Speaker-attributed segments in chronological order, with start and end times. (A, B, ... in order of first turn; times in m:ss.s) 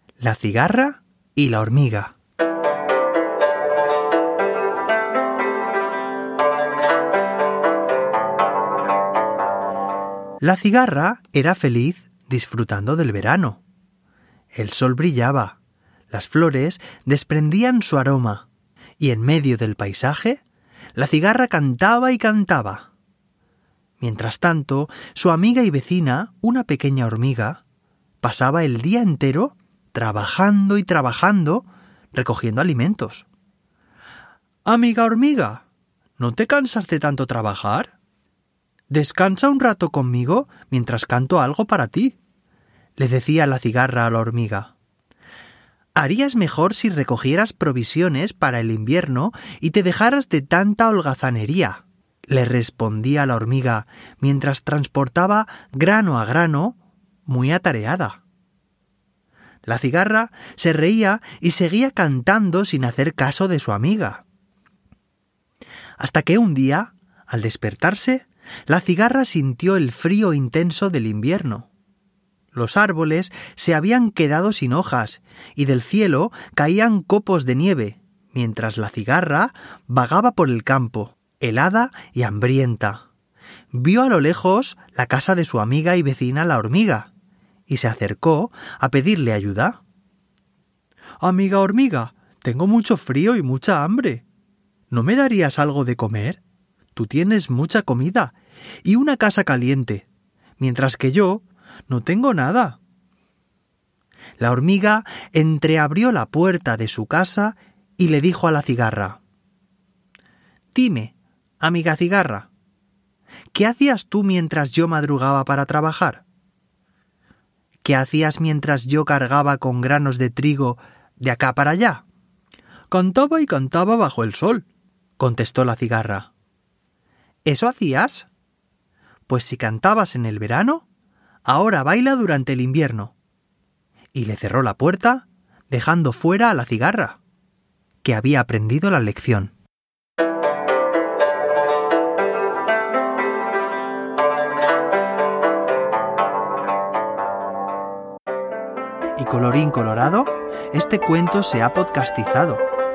0:00.2-0:02.1 A
0:10.4-0:13.6 A
0:14.5-0:15.6 A
0:16.1-0:18.4 A
0:19.0-0:20.4 A
0:21.0-0:22.9 A
0:24.0-0:27.6 A
0:28.2-0:33.3 A
0:34.7-0:35.6 A
0:36.2-0:37.9 A
0:38.9-0:42.2 A
0:43.0-0:44.7 A
0:46.0-0:58.2 A
0:59.6-1:04.2 A
1:06.0-1:11.7 A
1:12.5-1:23.0 A
1:23.7-1:27.1 A
1:27.7-1:29.8 A
1:31.2-1:34.2 A
1:34.9-1:36.4 A
1:36.9-1:38.3 A
1:38.8-1:40.0 A
1:40.6-1:42.8 A
1:44.4-1:49.2 A
1:50.7-1:52.5 A
1:53.5-1:56.2 A
1:57.8-2:02.0 A
2:02.9-2:04.7 A
2:05.2-2:06.3 A
2:07.4-2:08.3 A
2:09.3-2:10.8 A
2:11.5-2:13.1 A
2:14.1-2:17.2 A
2:18.0-2:19.5 A
2:29.2-2:32.6 A